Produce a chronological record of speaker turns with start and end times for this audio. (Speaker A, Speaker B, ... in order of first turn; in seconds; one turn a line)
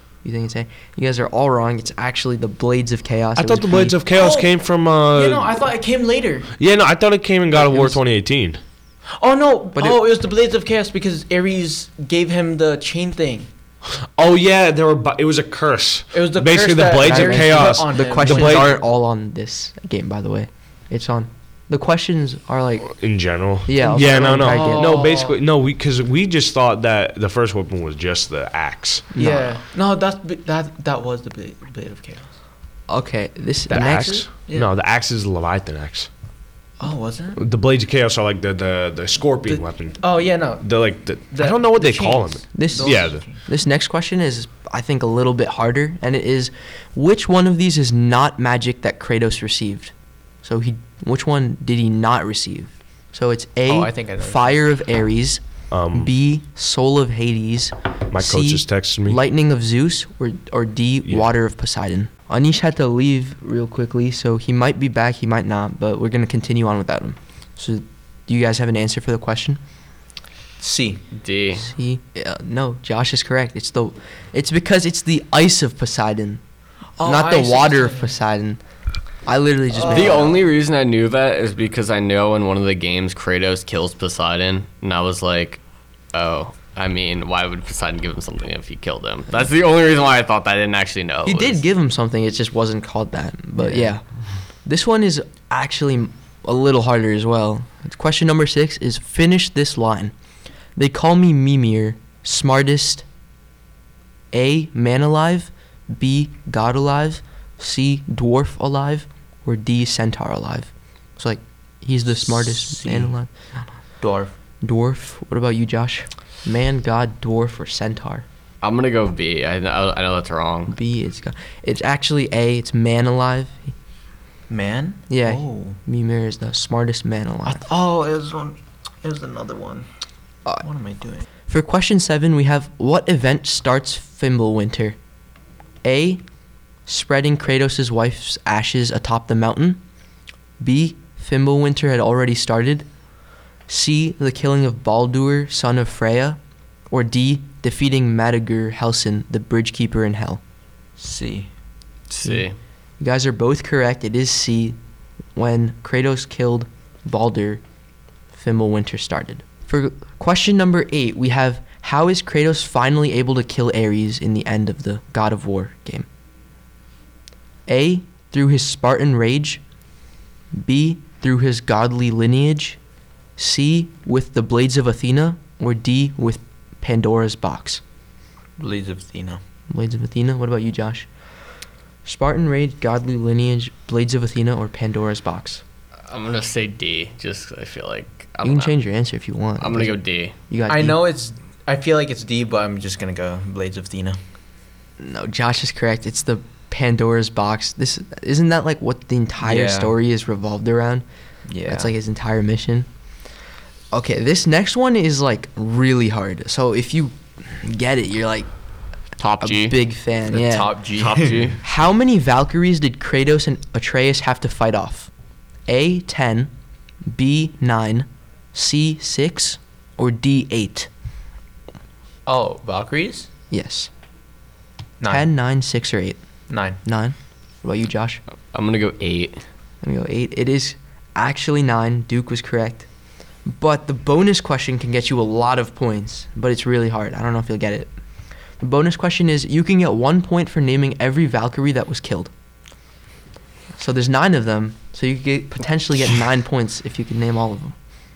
Speaker A: 0.2-4.0
Speaker B: 3.4-5.6
Speaker C: 4.1-4.5
Speaker C: 5.1-6.5
Speaker B: 6.6-8.6
Speaker C: 9.2-13.5
Speaker A: 9.8-10.0
Speaker B: 13.9-18.7
Speaker C: 16.1-18.8
Speaker A: 17.0-22.9
Speaker B: 22.9-29.1
Speaker A: 23.6-25.0
Speaker C: 24.3-25.4
Speaker A: 29.1-29.5
Speaker C: 29.1-32.3
Speaker A: 32.9-34.3
Speaker B: 33.7-36.1
Speaker C: 33.7-34.7
Speaker C: 36.8-37.4
Speaker B: 37.4-43.2
Speaker C: 39.5-40.7
Speaker C: 41.3-43.4
Speaker A: 42.5-49.9
Speaker A: 50.4-69.6
Speaker C: 53.7-54.7
Speaker B: 55.7-56.1
Speaker B: 58.1-59.2
Speaker C: 70.6-71.0
Speaker D: 71.1-71.7
Speaker A: 71.5-76.4
Speaker C: 77.0-78.1
Speaker A: 77.0-78.6
Speaker A: 79.2-80.3
Speaker C: 79.7-80.4
Speaker D: 79.9-85.6
Speaker D: 86.1-91.6
Speaker A: 91.2-94.0
Speaker D: 93.6-93.9
Speaker A: 94.7-100.1
Speaker A: 100.8-103.0
Speaker A: 104.3-113.3
Speaker C: 112.1-113.1
Speaker C: 114.0-114.3
Speaker A: 114.6-118.2
Speaker D: 118.6-120.7
Speaker A: 120.7-123.7
Speaker C: 124.5-125.8
Speaker A: 125.1-127.7
Speaker C: 127.5-129.9
Speaker C: 130.6-131.2
Speaker A: 131.5-135.0
Speaker A: 135.8-136.2
Speaker A: 136.8-139.8
Speaker A: 140.6-142.8
Speaker A: 143.7-146.4
Speaker A: 146.9-150.4
Speaker C: 151.0-151.5
Speaker D: 152.1-152.6
Speaker A: 153.0-154.8
Speaker A: 155.3-157.6
Speaker A: 158.3-166.1
Speaker A: 167.7-169.6
Speaker A: 170.6-172.8
Speaker A: 173.4-177.8
Speaker C: 178.6-179.4
Speaker A: 179.7-181.1
Speaker A: 182.0-185.6
Speaker D: 186.1-188.8
Speaker A: 188.4-191.0
Speaker D: 189.6-190.3
Speaker C: 190.7-194.2
Speaker A: 195.0-201.1
Speaker C: 199.4-199.9
Speaker C: 201.5-201.9
Speaker A: 201.6-202.9
Speaker A: 203.9-208.5
Speaker D: 209.2-209.7
Speaker A: 209.4-210.7
Speaker C: 210.3-211.5
Speaker D: 211.0-211.6
Speaker A: 211.6-215.1
Speaker A: 215.7-216.5
Speaker A: 217.1-220.9
Speaker C: 222.2-223.3
Speaker A: 223.5-223.9
Speaker C: 225.0-225.3
Speaker A: 225.1-226.2
Speaker C: 226.5-226.8
Speaker A: 226.8-228.2
Speaker D: 228.5-229.4
Speaker A: 229.8-232.9
Speaker A: 233.4-237.9
Speaker A: 238.6-242.3
Speaker A: 243.8-247.7